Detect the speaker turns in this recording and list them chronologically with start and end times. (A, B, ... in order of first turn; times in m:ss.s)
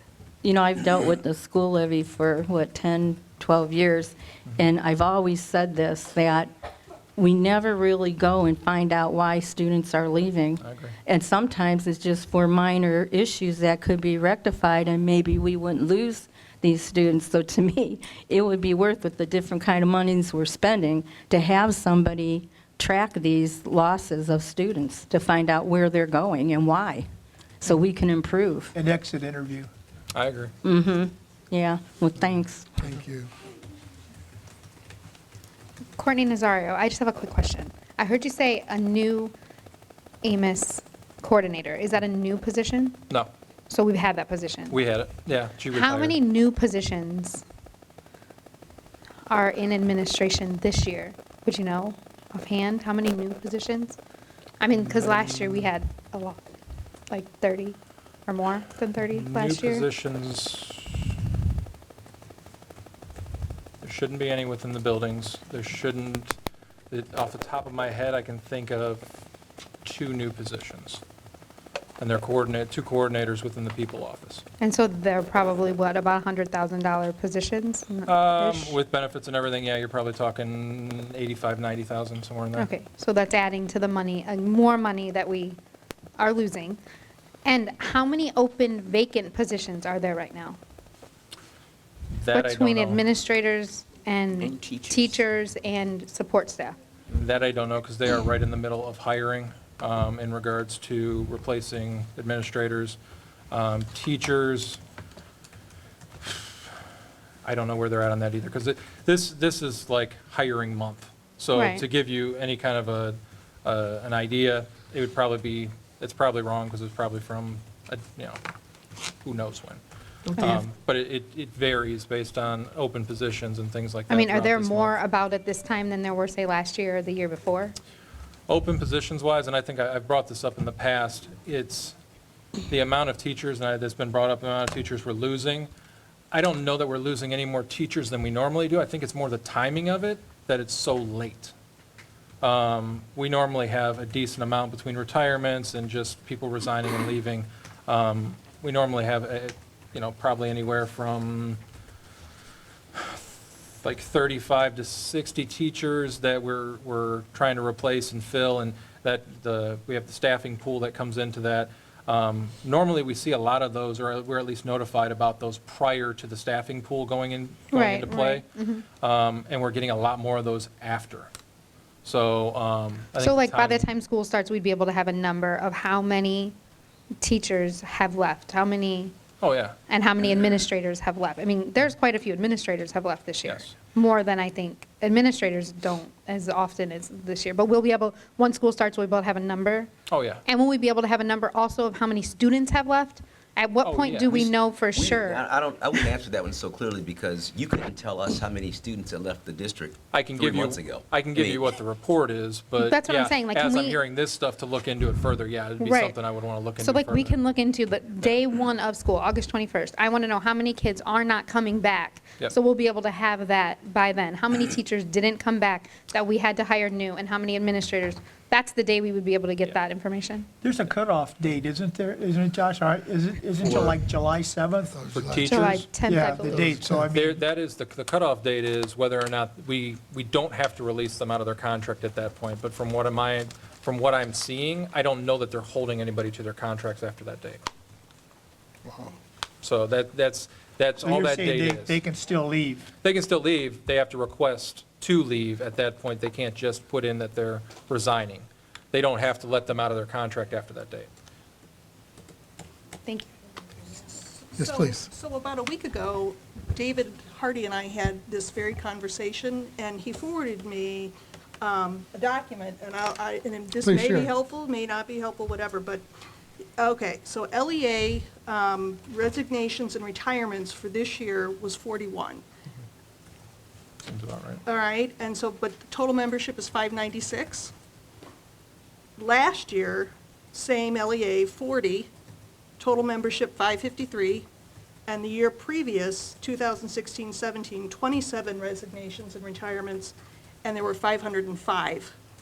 0:00.4-0:06.5 A
0:07.2-0:27.0 A
0:10.6-0:11.0 B
0:27.6-0:28.7 A
0:28.7-0:29.7 C
0:30.1-0:30.5 B
0:30.6-0:32.6 A
0:36.0-0:39.3 D
0:40.2-0:43.0 D
0:43.7-0:44.8 D
0:44.7-0:46.2 B
0:45.7-0:47.4 D
0:49.3-0:54.0 D
0:54.6-0:56.4 D
0:57.1-0:57.8 D
0:58.3-0:59.8 D
0:59.1-1:01.0 B
1:03.8-1:06.4 B
1:06.9-1:09.0 B
1:09.8-1:11.0 B
1:12.0-1:14.4 B
1:14.6-1:18.8 D
1:18.0-1:22.7 B
1:22.6-1:25.6 D
1:26.2-1:26.8 D
1:27.4-1:30.6 D
1:32.1-1:33.0 B
1:32.3-1:36.8 D
1:37.1-1:43.0 B
1:43.5-1:44.8 B
1:46.2-1:46.5 B
1:47.4-1:58.4 B
1:51.5-1:51.8 D
1:59.2-1:59.8 B
2:00.4-2:04.9 B
2:04.1-2:07.8 D
2:08.5-2:12.0 B
2:12.7-2:15.7 B
2:16.3-2:21.5 B
2:22.4-2:31.6 B
2:33.8-2:48.5 B
2:47.7-2:48.8 D
2:49.0-2:51.3 B
2:52.0-2:53.8 B
2:53.2-2:56.5 D
2:57.2-2:59.2 D
2:59.4-2:59.8 B
2:59.9-3:09.9 D
3:03.4-3:03.7 B
3:10.1-3:10.4 B
3:10.4-3:15.4 D
3:13.8-3:14.5 B
3:14.9-3:21.6 E
3:20.1-3:27.4 B
3:22.8-3:24.0 D
3:25.8-3:26.2 D
3:26.8-3:40.5 D
3:40.6-3:47.4 C
3:43.6-3:43.9 B
3:45.1-3:45.9 B
3:45.4-3:46.7 D
3:47.1-3:57.6 B
3:59.6-4:02.0 B
4:01.0-4:02.9 C
4:03.0-4:11.1 B
4:14.3-4:26.0 F
4:26.8-4:32.4 F
4:34.0-4:34.6 B
4:34.6-4:37.7 F
4:39.2-4:42.1 F
4:42.8-4:44.4 F
4:45.1-4:52.1 F